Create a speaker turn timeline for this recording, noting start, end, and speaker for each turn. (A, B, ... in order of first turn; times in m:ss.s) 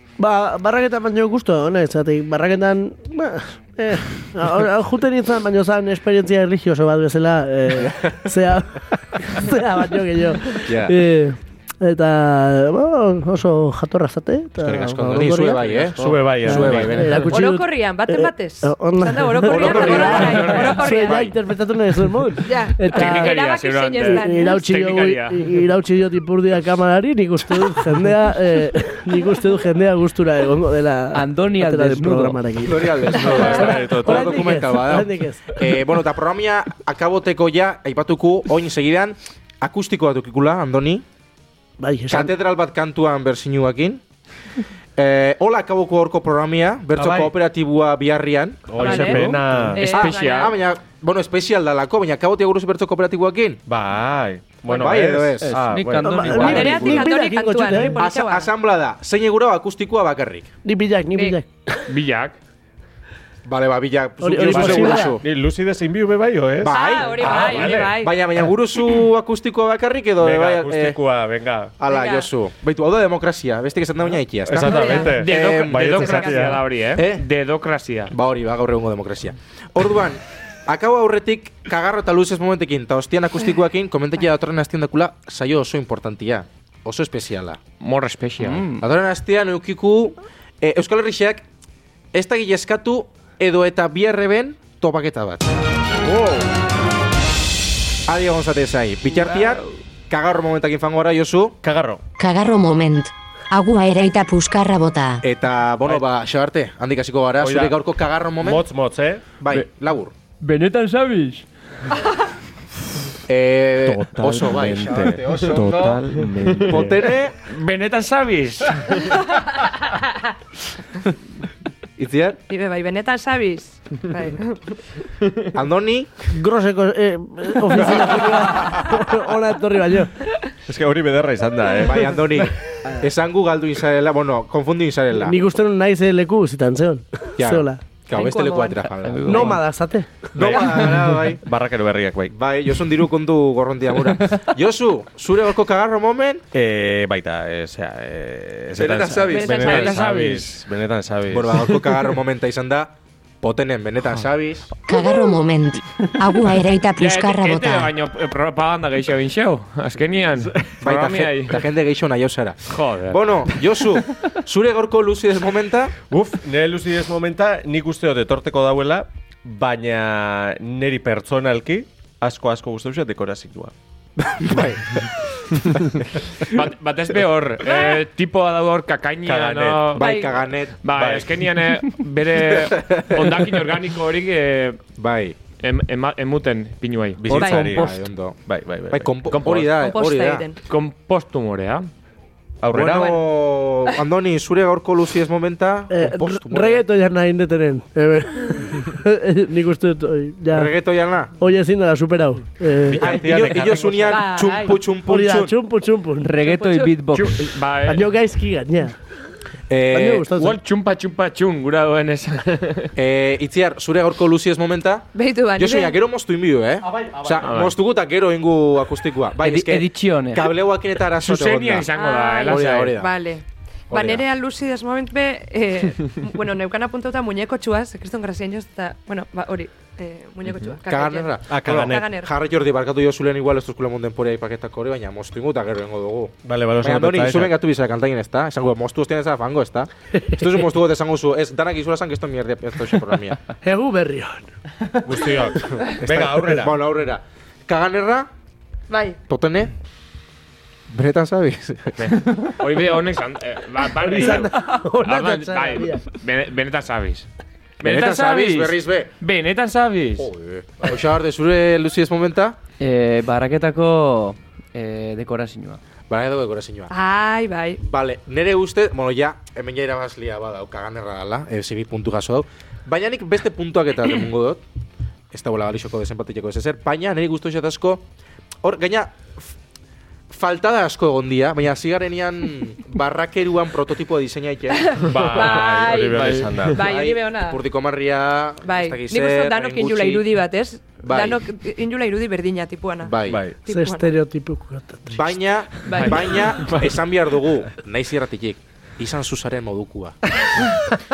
0:00.2-0:15.8 A
0:07.8-0:08.2 B
0:10.6-0:11.0 B
0:14.6-0:17.2 B
0:16.0-0:17.1 C
0:16.4-0:23.4 A
0:17.2-0:21.3 D
0:19.4-0:20.6 B
0:19.8-0:21.2 E
0:22.4-0:24.6 D
0:22.9-0:25.7 E
0:24.0-0:35.8 A
0:31.1-0:32.4 F
0:32.6-0:41.0 B
0:33.2-0:34.5 C
0:41.8-0:42.3 A
0:42.1-0:44.0 B
0:45.0-0:53.6 B
0:47.0-0:47.3 C
0:48.7-0:50.0 C
0:48.8-0:50.5 D
0:49.8-0:50.5 E
0:53.7-0:56.7 C
0:54.6-0:55.6 B
0:55.4-0:57.1 F
0:56.0-0:58.1 A
0:56.4-0:58.5 D
0:58.0-1:00.5 B
1:00.6-1:01.8 A
1:01.1-1:01.4 D
1:01.9-1:02.4 E
1:03.4-1:05.2 B
1:04.2-1:05.2 A
1:04.4-1:08.0 C
1:06.6-1:11.0 B
1:06.7-1:08.2 D
1:07.4-1:07.9 E
1:10.2-1:11.7 C
1:11.8-1:16.1 B
1:11.8-1:12.3 D
1:14.4-1:16.6 C
1:14.6-1:15.2 D
1:15.0-1:18.2 E
1:16.0-1:16.5 D
1:17.0-1:17.2 B
1:18.1-1:27.6 B
1:27.8-1:28.7 E
1:28.4-1:28.8 F
1:28.8-1:31.5 B
1:32.1-1:36.5 B
1:38.1-1:41.6 B
1:41.6-1:42.0 C
1:42.2-1:45.2 G
1:45.2-1:48.6 B
1:47.4-1:47.8 C
1:48.4-1:49.3 C
1:49.4-1:50.2 B
1:50.4-1:51.4 F
1:53.3-1:57.4 B
1:53.8-1:57.1 C
1:55.7-1:56.3 F
1:57.4-1:59.3 E
2:02.0-2:02.4 B
2:02.5-2:04.6 D
2:05.5-2:06.2 B
2:06.3-2:10.2 A
2:10.7-2:12.5 C
2:11.8-2:15.4 B
2:15.2-2:17.8 A
2:17.4-2:19.6 B
2:18.1-2:18.8 D
2:19.0-2:19.6 F
2:19.3-2:20.3 A
2:20.3-2:21.4 B
2:20.4-2:22.3 C
2:22.3-2:26.4 B
2:26.5-2:31.7 C
2:28.8-2:29.9 B
2:29.2-2:30.1 D
2:29.5-2:30.6 E
2:31.3-2:34.8 B
2:34.9-2:37.9 G
2:37.0-2:41.6 E
2:40.8-2:46.0 B
2:42.7-2:43.2 E
2:46.1-2:53.7 C
2:54.2-2:56.3 B
2:56.4-3:04.8 E
2:59.3-3:00.0 C
3:00.0-3:01.3 B
3:00.0-3:00.4 D
3:02.3-3:03.5 B
3:05.0-3:05.4 B
3:05.6-3:07.4 E
3:07.2-3:09.1 C
3:07.3-3:07.9 D
3:07.4-3:10.4 B
3:09.3-3:09.7 E
3:09.8-3:10.6 D
3:10.7-3:11.9 E
3:12.6-3:13.2 C
3:12.7-3:16.8 B
3:15.9-3:20.7 A
3:20.5-3:21.3 B
3:21.4-3:23.1 A
3:22.8-3:24.4 C
3:23.0-3:25.6 B
3:24.0-3:24.8 D
3:25.0-3:26.4 A
3:26.2-3:27.4 F
3:26.4-3:26.9 D
3:27.1-3:28.1 E
3:27.9-3:29.0 A
3:29.7-3:30.3 B
3:29.9-3:30.6 A
3:30.4-3:32.9 E
3:33.0-3:41.9 B
3:35.2-3:36.0 D
3:36.8-3:37.5 C
3:37.4-3:37.8 E
3:39.4-3:40.5 F
3:41.2-3:43.0 E
3:41.9-3:52.3 D
3:42.4-3:43.1 B
3:43.9-3:44.2 B
3:50.9-4:03.4 B
3:51.5-3:52.2 C
3:56.4-3:57.5 C
4:03.6-4:04.9 A
4:05.0-4:06.8 C
4:06.0-4:08.3 B
4:08.9-4:09.2 D
4:09.3-4:09.7 B
4:10.9-4:12.1 B
4:12.0-4:17.3 E
4:14.0-4:16.0 A
4:17.8-4:20.3 E
4:17.8-4:19.1 B
4:20.2-4:22.6 B
4:22.8-4:25.8 F
4:26.1-4:26.9 B
4:26.9-4:27.8 D
4:27.8-4:34.6 B
4:35.3-4:38.0 B
4:38.6-4:39.5 B
4:40.3-4:45.0 B
4:44.7-4:47.6 D
4:45.0-4:47.0 C
4:46.8-4:50.3 B
4:48.6-4:54.2 D
4:51.0-4:51.4 B
4:53.0-4:53.4 B
4:53.3-4:53.6 C
4:53.7-4:55.3 A
4:55.1-5:00.2 B
4:55.9-4:56.4 D
4:55.9-4:57.0 E